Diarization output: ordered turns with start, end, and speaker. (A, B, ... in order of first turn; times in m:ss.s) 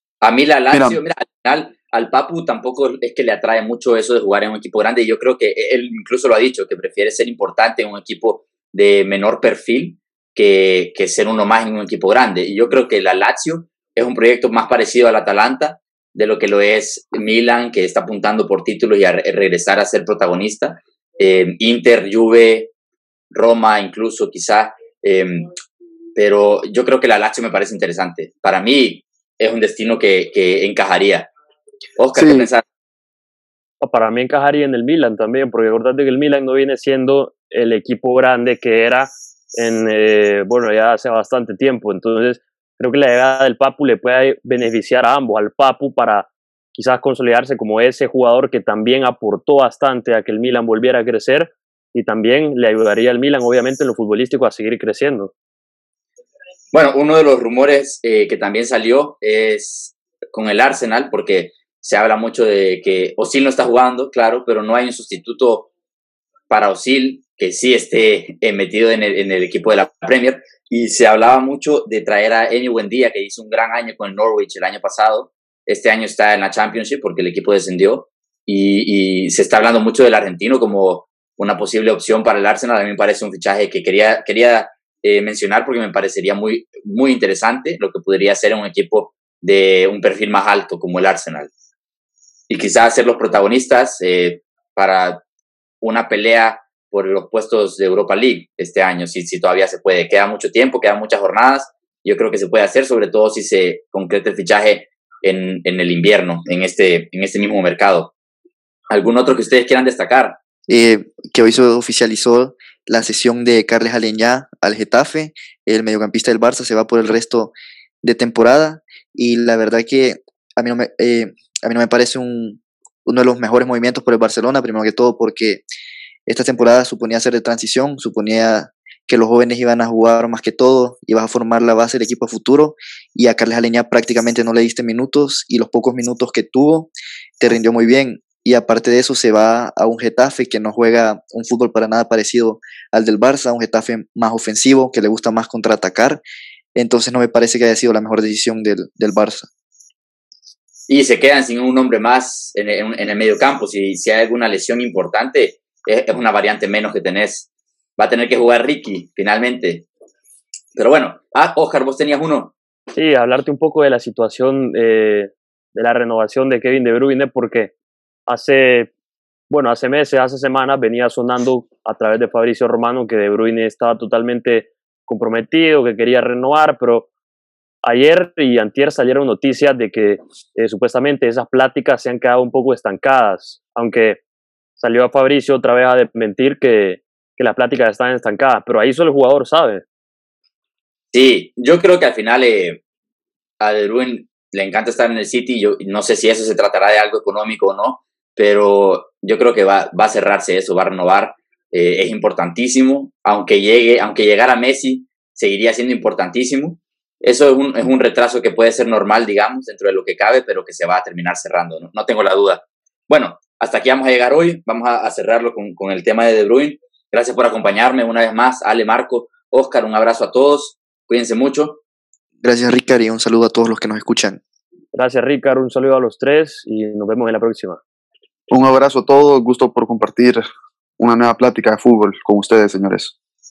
0:00.2-0:22.7 A
0:00.7-0:01.0 B
0:23.3-0:25.5 A
0:26.2-0:31.3 A
0:32.0-0:32.6 A
0:32.1-0:32.5 B
0:33.8-0:55.3 C
0:56.7-1:05.7 A
1:06.5-1:31.5 A
1:32.5-1:35.2 A
1:35.8-1:48.1 A
1:48.9-1:50.4 A
1:50.7-2:05.6 D
2:06.3-2:26.2 D
2:26.7-2:29.5 D
2:30.9-2:39.8 A
2:40.8-2:42.5 A
2:43.0-2:47.7 C
2:48.3-2:48.9 C
2:49.5-2:57.1 C
2:57.8-3:04.2 C
3:04.8-3:09.8 C
3:11.1-3:12.8 A
3:13.6-3:41.8 A
3:42.4-3:44.4 D
3:44.9-3:47.8 C
3:48.5-3:50.4 B
3:51.0-3:53.1 B